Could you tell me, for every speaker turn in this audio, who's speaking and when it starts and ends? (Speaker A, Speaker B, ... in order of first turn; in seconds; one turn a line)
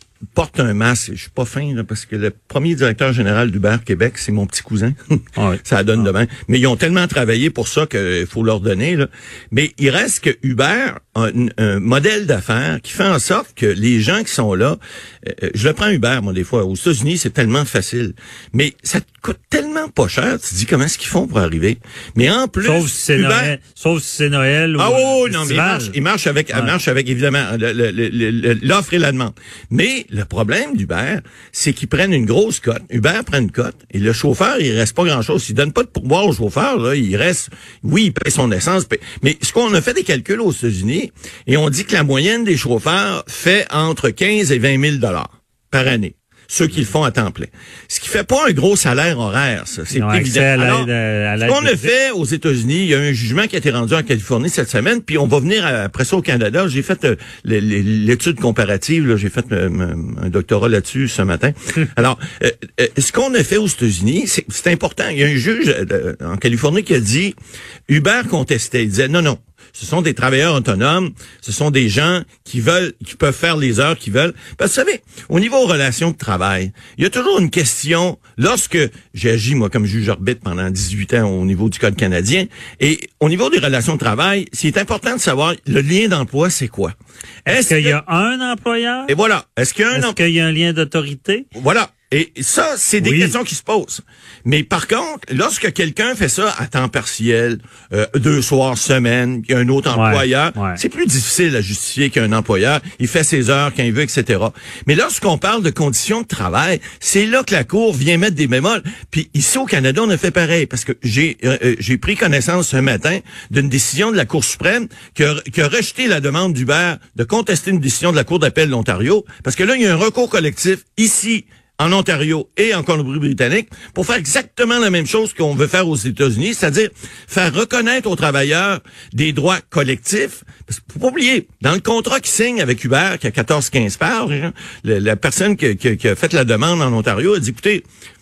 Speaker A: 0.3-23.6
Speaker B: 5.3-6.1
Speaker B: 22.6-25.9
Speaker A: 24.8-50.9
Speaker B: 49.9-51.9
Speaker A: 51.4-67.3
Speaker A: 67.9-86.9
Speaker A: 87.5-88.0
Speaker B: 87.5-89.1
Speaker A: 89.1-90.2
Speaker B: 89.9-91.5
Speaker A: 91.5-137.8
Speaker B: 93.0-93.3
Speaker B: 99.9-100.8